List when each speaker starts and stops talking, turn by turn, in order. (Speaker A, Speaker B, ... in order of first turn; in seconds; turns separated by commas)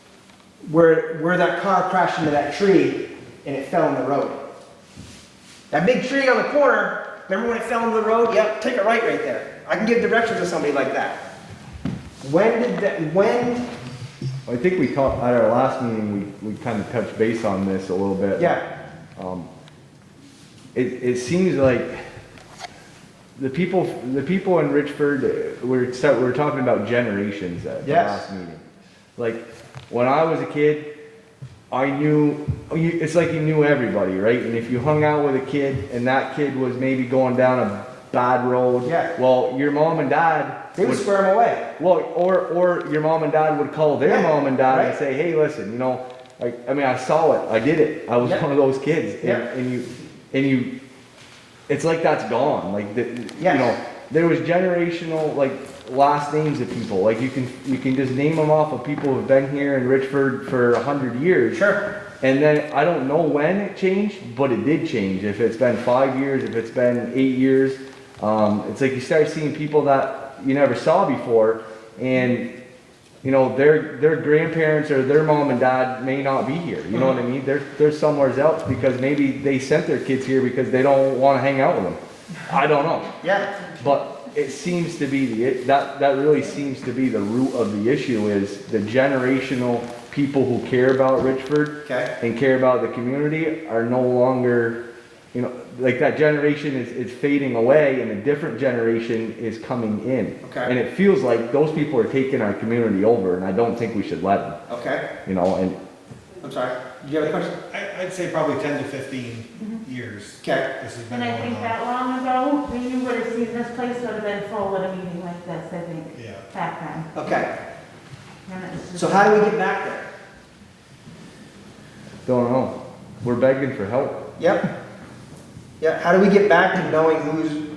Speaker A: 0.6-4.4, Speaker A: 5.7-11.2, Speaker A: 12.2-13.7, Speaker B: 14.5-18.6, Speaker A: 18.4-18.6, Speaker B: 19.2-19.5, Speaker B: 20.7-21.9, Speaker B: 23.4-28.6, Speaker A: 27.8-28.2, Speaker B: 29.2-30.9, Speaker B: 31.7-41.1, Speaker A: 38.8-39.1, Speaker A: 40.8-41.7, Speaker B: 41.8-50.7, Speaker A: 44.0-45.0, Speaker B: 51.7-61.6, Speaker A: 53.4-53.7, Speaker A: 61.5-61.9, Speaker B: 62.2-72.5, Speaker B: 73.2-83.1, Speaker A: 83.2-83.5, Speaker B: 83.8-94.8, Speaker B: 95.3-104.6, Speaker A: 100.4-100.7, Speaker A: 104.7-105.1, Speaker B: 105.3-105.8, Speaker A: 106.4-107.5, Speaker C: 107.3-111.8, Speaker A: 110.4-110.7, Speaker D: 111.1-117.1, Speaker C: 116.1-116.5, Speaker A: 117.2-117.5, Speaker D: 118.5-119.5, Speaker A: 119.0-120.1, Speaker B: 122.2-124.3, Speaker A: 124.4-124.7, Speaker A: 125.8-127.6